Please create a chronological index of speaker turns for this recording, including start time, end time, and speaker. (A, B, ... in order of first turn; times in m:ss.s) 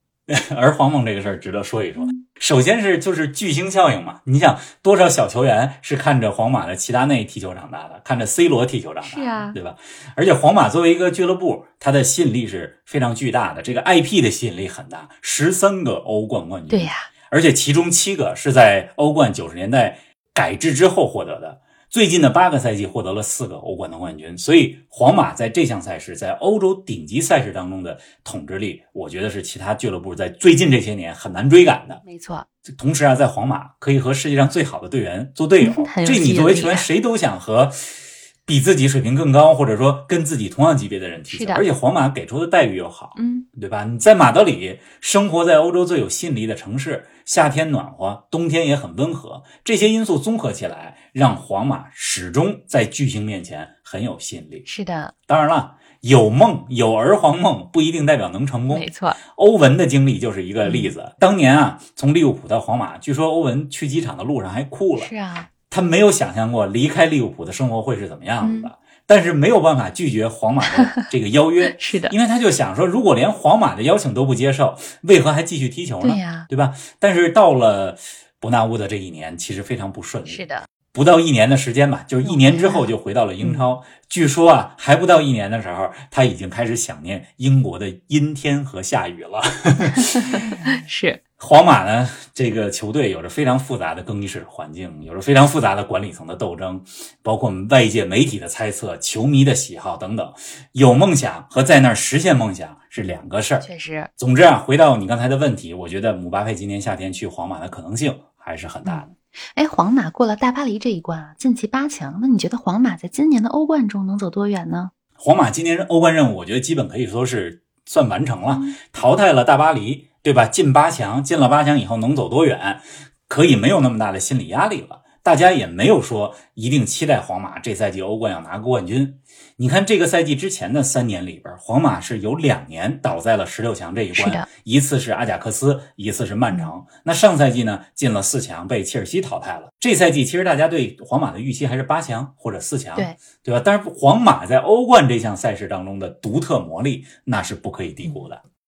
0:00.3-0:32.0 A
0:02.0-0:02.2 B
0:09.0-0:09.6 B
0:16.7-0:17.1 B
0:32.0-0:32.5 B
0:32.6-0:37.8 A
0:35.6-0:36.9 B
0:38.5-0:54.6 A
0:41.3-0:41.6 B
0:43.2-0:43.5 B
0:54.6-0:55.1 B
0:55.3-1:05.1 A
0:58.7-0:59.2 B
1:00.6-1:01.0 B
1:05.0-1:05.5 B
1:05.7-1:30.4 A
1:08.4-1:08.7 B
1:10.6-1:11.1 B
1:11.6-1:12.1 B
1:16.0-1:16.5 B
1:20.2-1:20.6 B
1:22.2-1:22.9 B
1:23.4-1:23.7 B
1:30.2-1:31.2 B
1:31.4-1:49.1 A
1:43.6-1:44.1 B
1:48.8-1:54.9 B
1:55.2-2:28.4 A
1:58.4-1:58.8 B
2:14.1-2:14.5 B